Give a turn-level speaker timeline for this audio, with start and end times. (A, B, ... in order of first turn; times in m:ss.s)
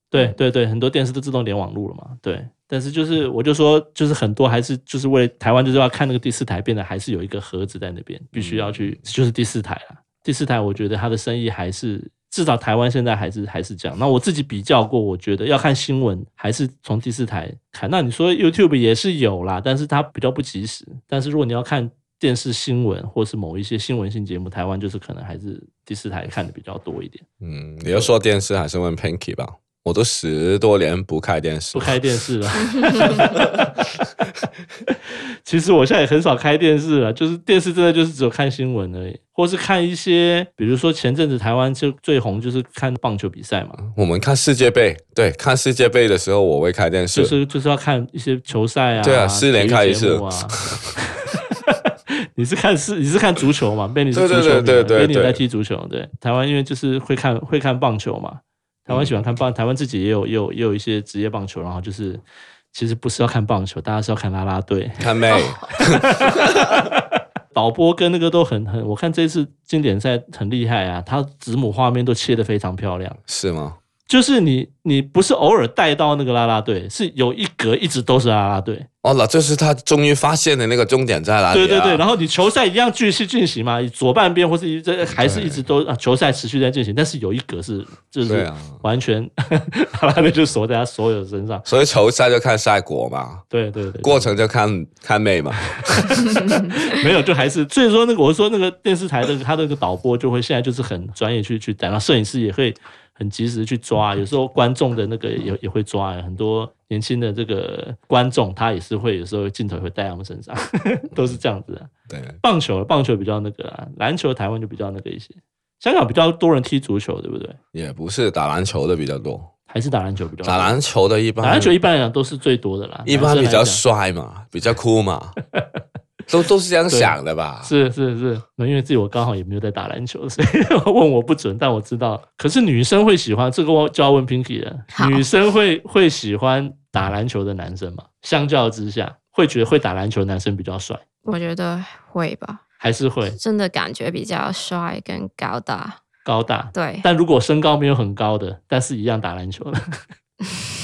0:00.1-0:27.2 A
0:08.4-0:09.0 B
0:27.4-0:32.0 B
0:31.7-0:33.7 A
0:35.4-0:43.8 A
0:43.9-0:47.4 B
0:47.1-0:51.8 A
0:49.0-0:50.6 B
0:52.4-1:05.1 A
0:54.1-0:55.4 B
0:58.9-0:59.2 B
1:05.0-1:06.8 B
1:05.3-1:05.6 C
1:05.8-1:07.0 A
1:07.5-1:13.2 A
1:13.3-1:13.8 B
1:14.1-1:18.9 A
1:19.0-1:22.0 B
1:21.5-1:31.6 A
1:25.1-1:25.6 B
1:28.2-1:28.8 B
1:31.6-1:33.4 B
1:33.5-1:34.3 A
1:34.0-1:36.1 B
1:36.0-1:51.9 A
1:52.1-1:52.4 B
1:52.4-1:57.6 A
1:57.7-1:59.5 B
1:59.7-2:00.8 A
2:00.4-2:01.7 B
2:01.4-2:03.8 A
2:03.0-2:05.3 B
2:06.3-2:07.7 B
2:06.9-2:21.0 A
2:14.9-2:15.2 C
2:21.2-2:22.6 C
2:22.8-2:23.4 A
2:23.4-2:26.0 C
2:26.2-2:29.8 A
2:26.7-2:27.0 C